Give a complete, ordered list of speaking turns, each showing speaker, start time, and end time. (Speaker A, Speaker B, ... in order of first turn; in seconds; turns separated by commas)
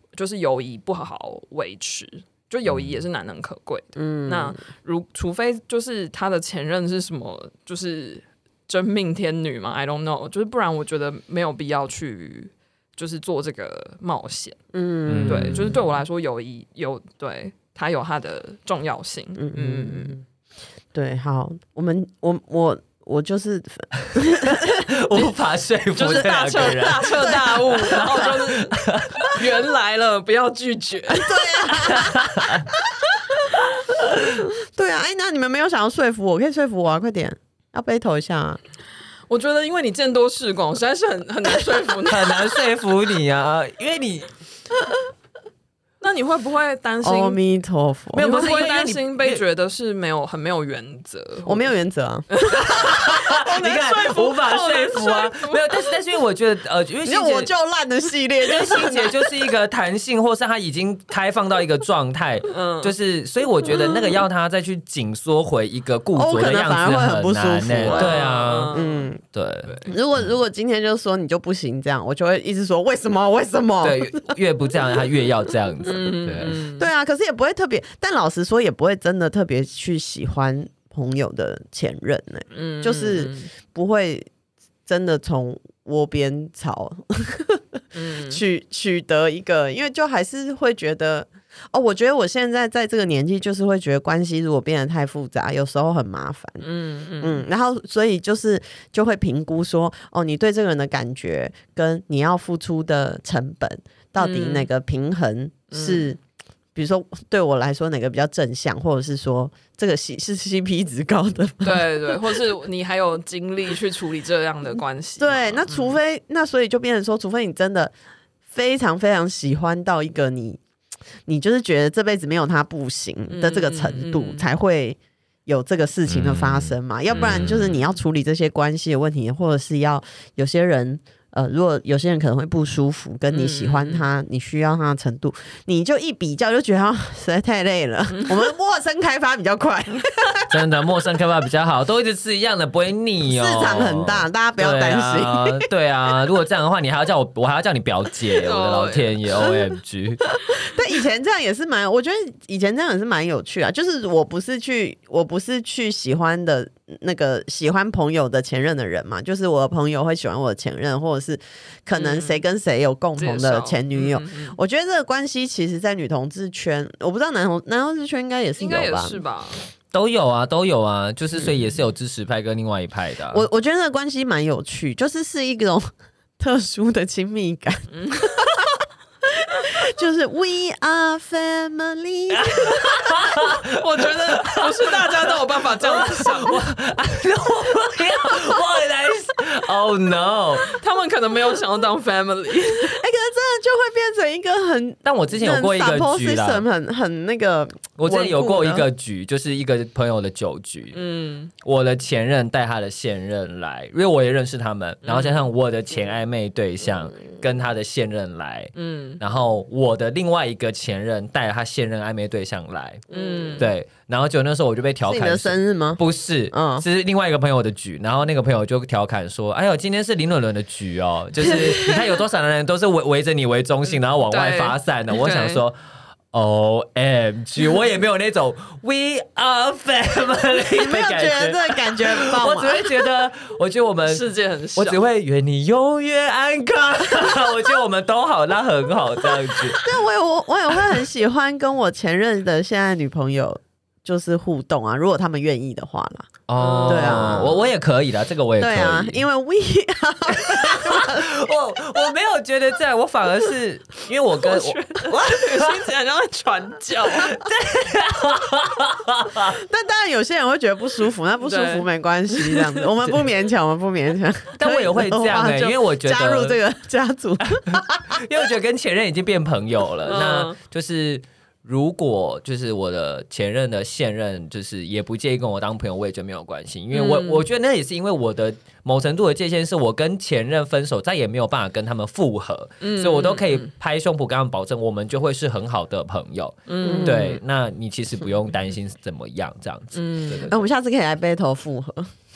Speaker A: 0.1-14.6, Speaker B: 2.7-3.0, Speaker C: 4.0-4.6, Speaker C: 14.7-15.8, Speaker B: 15.1-15.8, Speaker A: 15.2-20.1, Speaker C: 19.4-20.2, Speaker C: 20.9-24.8, Speaker B: 24.4-29.4, Speaker A: 26.0-31.7, Speaker C: 27.1-27.6, Speaker C: 31.1-33.5, Speaker B: 31.7-32.7, Speaker B: 34.0-34.4, Speaker C: 34.4-38.6, Speaker A: 39.3-42.5, Speaker B: 42.1-44.3, Speaker A: 46.0-47.4, Speaker C: 47.0-48.3, Speaker B: 48.1-49.4, Speaker A: 48.1-51.7, Speaker C: 51.5-54.0, Speaker A: 52.3-55.8, Speaker B: 52.6-57.5, Speaker C: 57.0-59.4, Speaker B: 58.4-68.7, Speaker A: 62.5-62.9, Speaker C: 66.1-69.2, Speaker A: 67.9-69.1, Speaker B: 69.3-70.3, Speaker A: 69.7-70.0, Speaker C: 69.8-74.3, Speaker B: 73.8-76.6, Speaker A: 75.8-76.9, Speaker C: 76.8-84.3, Speaker A: 82.5-83.5, Speaker C: 84.8-96.6, Speaker A: 87.9-88.4, Speaker A: 96.6-97.4, Speaker C: 97.2-106.2, Speaker A: 104.2-104.7, Speaker A: 105.7-106.1, Speaker C: 106.7-112.1, Speaker A: 111.6-116.0, Speaker C: 115.2-117.9, Speaker C: 118.5-120.6, Speaker C: 121.2-140.5, Speaker A: 123.3-124.5, Speaker B: 126.1-127.8, Speaker A: 133.3-134.1, Speaker A: 138.1-138.5, Speaker B: 140.5-150.2, Speaker C: 143.2-145.6, Speaker A: 148.4-149.2, Speaker C: 150.5-169.2, Speaker A: 161.9-162.4, Speaker A: 163.2-164.6, Speaker A: 168.6-169.6, Speaker B: 169.9-173.4, Speaker C: 171.3-171.7, Speaker C: 173.3-183.0, Speaker A: 177.9-178.5, Speaker B: 182.3-190.8, Speaker A: 183.7-186.6, Speaker A: 190.8-193.0, Speaker C: 192.7-198.9, Speaker B: 195.0-196.6, Speaker B: 198.0-201.0, Speaker A: 200.9-201.5, Speaker B: 201.6-213.1, Speaker A: 205.0-205.4, Speaker A: 208.8-209.2, Speaker C: 213.1-213.6, Speaker A: 213.1-213.7, Speaker B: 213.6-225.8, Speaker C: 215.1-216.8, Speaker C: 221.4-222.1, Speaker A: 224.3-225.6, Speaker B: 226.3-234.2, Speaker C: 230.8-233.1, Speaker A: 234.1-235.0, Speaker B: 234.8-239.8, Speaker C: 239.8-246.3, Speaker B: 246.5-249.2, Speaker A: 246.5-247.4, Speaker C: 246.9-247.6, Speaker C: 248.6-251.3, Speaker B: 250.3-255.7, Speaker A: 254.4-257.4, Speaker B: 257.2-259.6, Speaker C: 259.4-268.2, Speaker A: 261.4-262.9, Speaker B: 264.6-266.6, Speaker B: 267.5-290.5, Speaker A: 270.1-270.6, Speaker A: 276.9-277.4, Speaker A: 282.8-283.7, Speaker A: 286.7-287.4, Speaker C: 286.8-287.2, Speaker A: 289.9-290.6, Speaker C: 290.5-292.1